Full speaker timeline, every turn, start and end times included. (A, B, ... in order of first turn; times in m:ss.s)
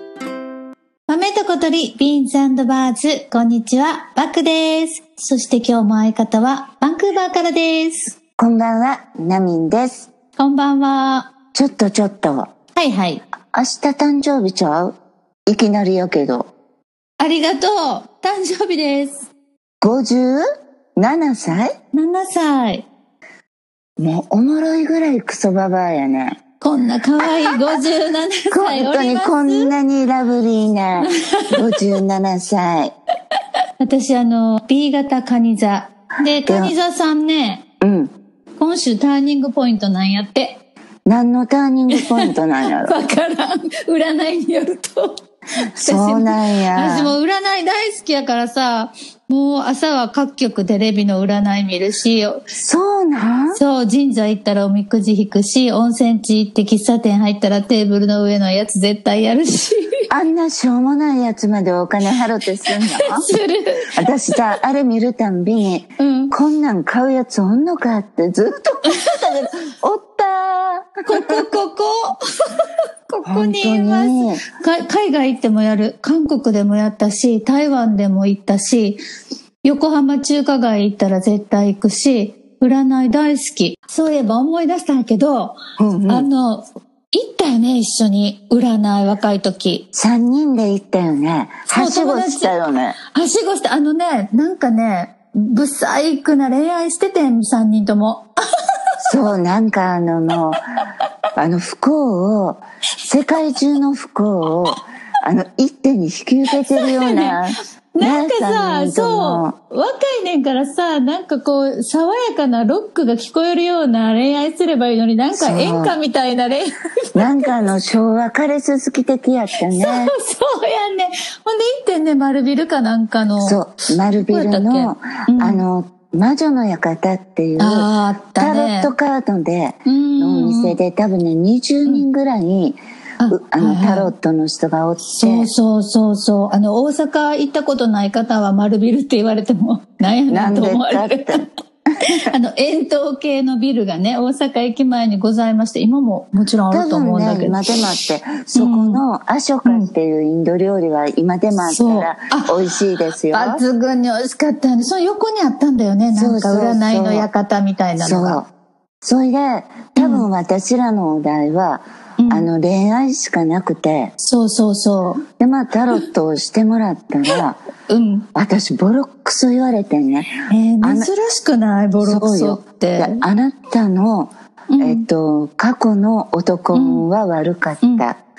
0:01.1-0:08.2 A
0:08.4-0:10.1 B
0:10.4-0:11.3 A
0:11.5-0:12.5 B
0:12.8-0:13.2 A
0:13.5-0:15.0 B
0:15.5-0:16.5 B
0:17.2-0:19.3 A
0:19.8-0:20.4 B
0:21.0-0:21.7 B
0:21.9-0:22.9 A
0:24.0-0:26.4 B
0:26.6-0:29.7 A
0:28.5-0:32.9 B
0:31.0-0:31.6 A
0:33.8-0:37.6 A
0:36.4-0:36.7 B
0:37.8-0:38.1 B
0:38.6-0:40.6 A
0:41.1-0:43.0 B
0:41.9-0:45.2 A
0:45.8-0:47.1 B
0:45.8-0:52.4 A
0:52.6-0:53.6 B
0:53.5-1:00.0 A
1:00.1-1:03.3 B
1:02.7-1:03.9 A
1:03.9-1:11.4 B
1:06.0-1:06.4 A
1:11.1-1:19.0 A
1:13.2-1:14.4 B
1:19.6-1:29.9 A
1:25.8-1:26.3 B
1:29.9-1:33.0 B
1:31.7-1:32.6 A
1:33.1-1:38.3 A
1:39.1-1:40.6 B
1:41.4-1:49.5 B
1:46.7-1:47.4 A
1:47.9-1:57.4 A
1:55.3-1:56.0 B
1:57.2-2:00.1 B
1:59.6-2:03.6 A
2:03.4-2:15.5 B
2:04.2-2:05.6 A
2:07.6-2:08.9 A
2:09.8-2:10.8 A
2:13.2-2:14.1 A
2:15.1-2:21.4 A
2:20.3-2:21.5 B
2:22.3-2:27.6 A
2:26.7-2:33.6 B
2:28.6-2:29.0 A
2:31.6-2:32.6 A
2:33.3-2:38.4 A
2:36.1-2:37.3 B
2:38.0-2:38.5 B
2:39.0-2:44.1 B
2:40.0-2:40.3 A
2:42.2-2:42.5 A
2:44.2-2:45.2 A
2:45.4-2:47.6 B
2:47.9-2:48.3 A
2:48.4-2:51.1 B
2:50.5-2:53.2 A
2:52.0-2:58.2 B
2:54.7-2:55.1 A
2:56.7-2:57.1 A